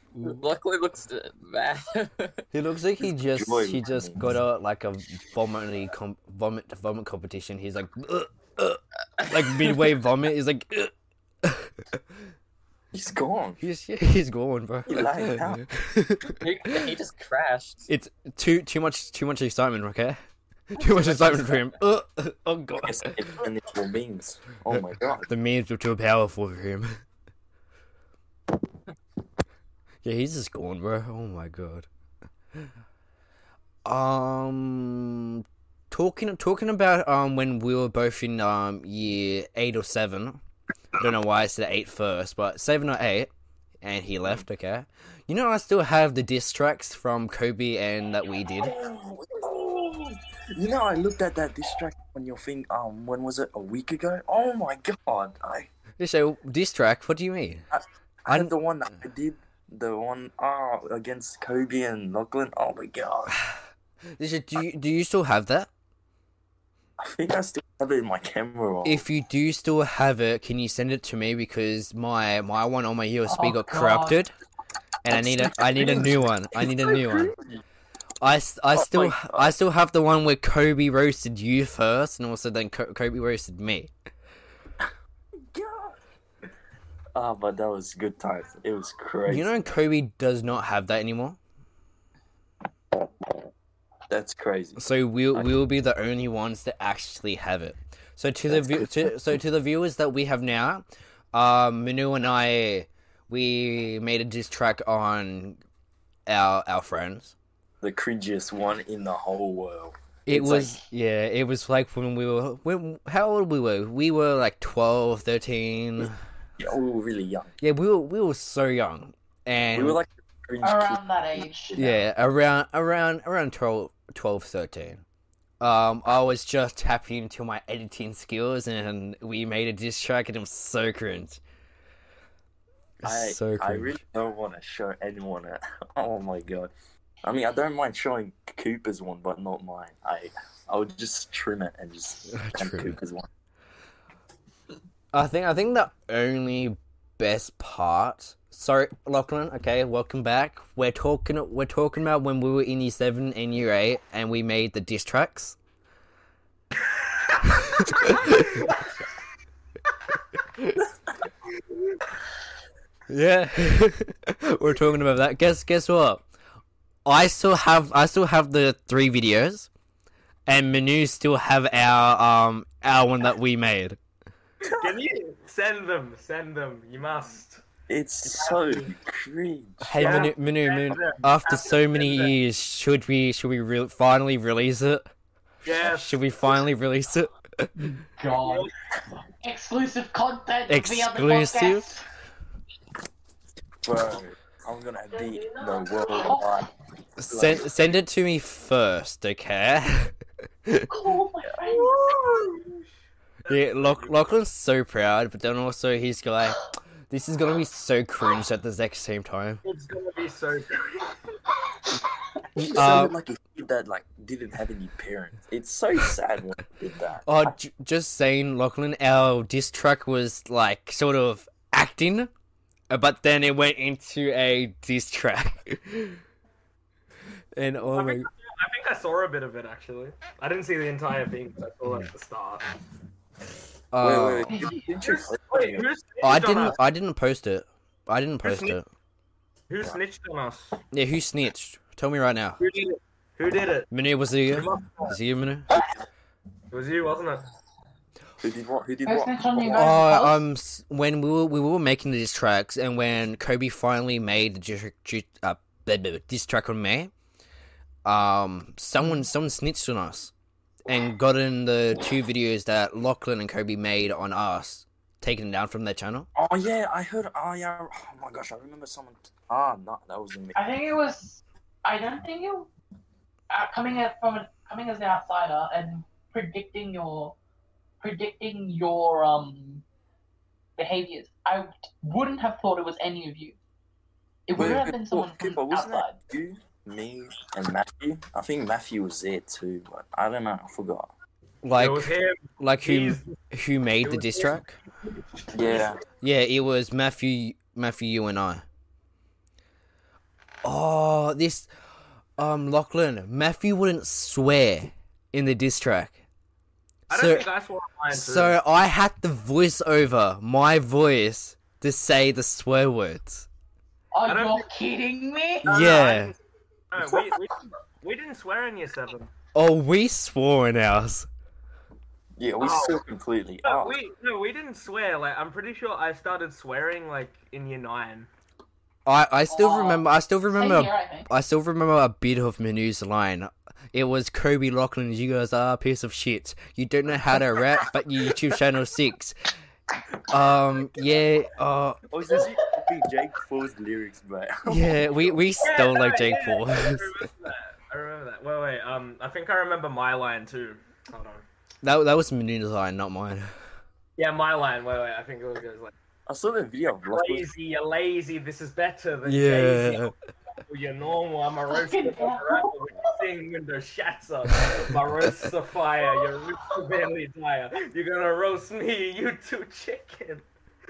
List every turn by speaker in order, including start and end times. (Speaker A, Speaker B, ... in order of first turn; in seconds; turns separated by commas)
Speaker A: 0.1-0.4, Speaker B: 0.2-2.4, Speaker A: 2.5-10.9, Speaker C: 3.3-4.3, Speaker A: 11.4-11.7, Speaker C: 12.9-13.6, Speaker A: 13.6-16.4, Speaker C: 14.9-15.7, Speaker B: 16.4-17.9, Speaker A: 17.9-20.2, Speaker A: 20.7-23.2, Speaker B: 20.8-21.6, Speaker C: 22.8-25.3, Speaker A: 24.7-27.0, Speaker A: 30.0-31.9, Speaker A: 33.8-40.4, Speaker A: 41.0-43.3, Speaker A: 43.8-48.7, Speaker C: 48.6-55.7, Speaker A: 56.0-57.6, Speaker C: 57.7-63.4, Speaker A: 64.2-65.7, Speaker C: 67.0-69.0, Speaker A: 68.8-74.3, Speaker D: 73.3-74.2, Speaker A: 75.0-77.3, Speaker C: 75.1-77.6, Speaker A: 78.2-83.9, Speaker C: 78.7-79.5, Speaker C: 85.5-86.0, Speaker C: 87.1-89.7, Speaker A: 89.3-91.4, Speaker C: 94.1-95.6, Speaker A: 94.8-105.6, Speaker C: 98.5-99.2, Speaker A: 106.3-107.3, Speaker C: 107.8-110.8, Speaker A: 110.2-116.2, Speaker C: 116.6-117.5, Speaker A: 117.6-120.0, Speaker C: 119.7-122.0, Speaker D: 120.6-121.8, Speaker A: 121.8-125.0, Speaker A: 125.6-131.4, Speaker A: 133.0-134.0, Speaker C: 133.0-136.7, Speaker C: 137.2-143.3, Speaker A: 142.3-143.0, Speaker A: 145.1-155.6, Speaker A: 157.5-158.6, Speaker E: 158.0-158.7, Speaker A: 163.1-166.2, Speaker A: 167.0-169.7, Speaker A: 170.5-174.0, Speaker E: 174.7-177.6, Speaker C: 177.9-180.3, Speaker E: 178.3-178.9, Speaker A: 179.8-185.1, Speaker E: 179.9-182.3, Speaker E: 185.6-186.2, Speaker A: 185.8-187.7, Speaker D: 187.8-188.7, Speaker E: 188.3-188.7, Speaker D: 189.4-192.0, Speaker A: 190.7-191.9, Speaker C: 193.8-196.7, Speaker D: 195.1-196.6, Speaker A: 197.2-200.9, Speaker C: 197.2-197.7, Speaker D: 200.9-201.9, Speaker E: 201.7-202.8, Speaker E: 203.4-204.0, Speaker A: 203.5-209.6, Speaker E: 209.6-211.2, Speaker A: 212.6-213.1, Speaker C: 212.6-217.5, Speaker A: 217.2-222.3, Speaker A: 222.9-226.2, Speaker A: 227.6-228.3, Speaker E: 227.9-232.7, Speaker A: 233.9-234.5, Speaker C: 234.0-235.9, Speaker E: 235.0-236.8, Speaker A: 236.2-238.8, Speaker E: 238.4-238.8, Speaker E: 239.7-240.8, Speaker A: 240.9-242.6, Speaker E: 242.6-243.9, Speaker A: 243.9-245.7, Speaker E: 244.5-245.2, Speaker E: 246.7-247.4, Speaker C: 248.4-250.0, Speaker D: 249.1-250.4, Speaker A: 249.7-257.1, Speaker A: 258.0-260.3, Speaker A: 260.9-266.3, Speaker C: 266.3-270.6, Speaker D: 270.5-272.7, Speaker D: 273.5-277.3, Speaker D: 278.0-279.8, Speaker D: 280.8-283.6, Speaker D: 284.5-286.2, Speaker C: 284.5-291.1, Speaker A: 291.6-294.8, Speaker E: 291.7-293.4, Speaker E: 294.0-295.9, Speaker C: 295.5-296.0, Speaker A: 296.2-298.6, Speaker A: 300.6-301.7, Speaker A: 302.4-306.2, Speaker E: 307.1-308.6, Speaker A: 307.1-307.5, Speaker A: 308.1-313.5, Speaker D: 314.1-315.6, Speaker E: 314.2-314.7, Speaker E: 315.6-316.4, Speaker A: 315.6-316.3, Speaker E: 316.9-319.3, Speaker C: 317.0-317.4, Speaker A: 319.5-321.3, Speaker C: 322.4-324.0, Speaker E: 322.6-323.0, Speaker E: 323.6-328.3, Speaker A: 329.1-339.4, Speaker D: 329.5-331.3, Speaker A: 340.3-342.0, Speaker C: 342.1-345.5, Speaker A: 344.7-347.1, Speaker E: 345.6-351.4, Speaker A: 351.8-353.5, Speaker E: 354.2-355.9, Speaker C: 356.3-357.5, Speaker E: 357.1-370.4, Speaker A: 359.2-360.1, Speaker D: 361.7-362.7